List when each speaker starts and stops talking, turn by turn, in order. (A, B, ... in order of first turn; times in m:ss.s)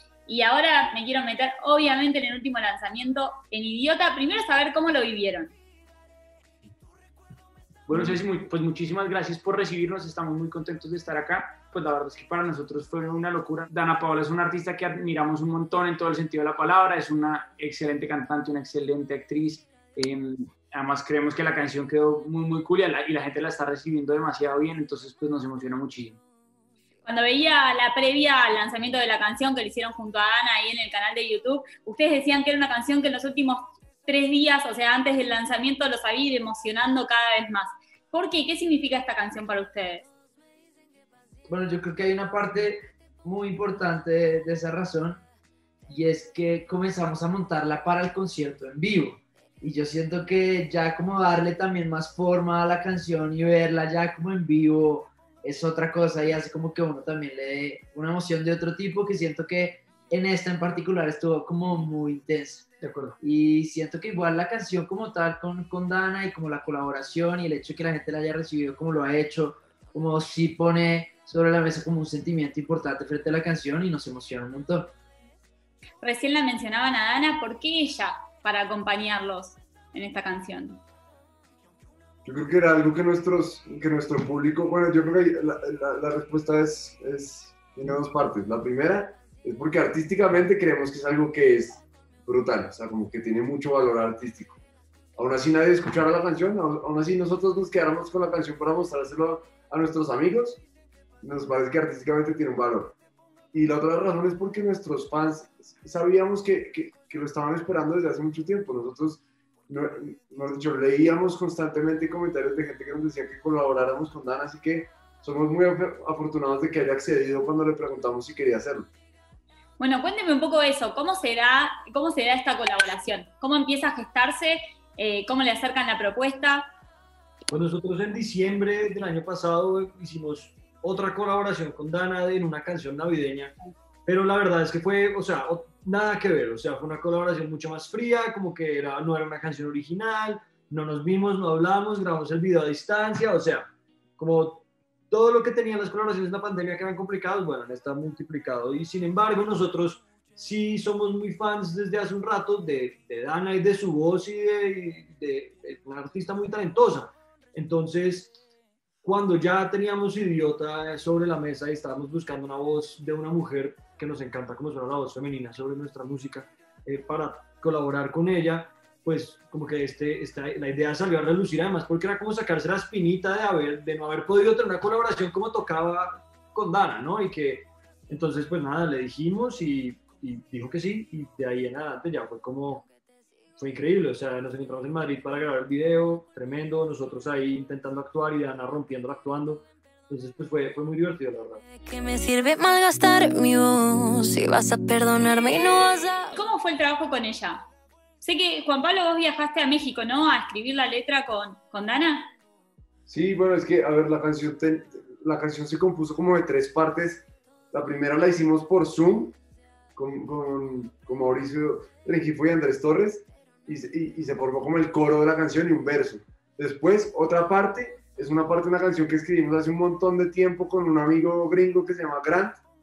0:00.2-0:05.6 A
0:07.9-0:26.2 B
0:27.0-0:40.1 A
0:41.5-0:45.2 C
0:45.9-1:14.9 C
1:02.8-1:03.2 D
1:16.0-1:20.8 A
1:22.2-1:34.6 E
1:35.2-1:40.6 E
1:41.2-1:43.0 E
1:43.5-1:58.9 E
1:59.8-2:06.6 A
2:07.5-2:13.5 D
2:14.0-2:38.4 D
2:39.0-3:02.8 D
3:03.6-3:11.6 D
3:11.8-3:16.3 F
3:16.3-3:17.6 A
3:18.2-3:22.3 A
3:23.1-3:29.4 E
3:30.0-3:42.6 E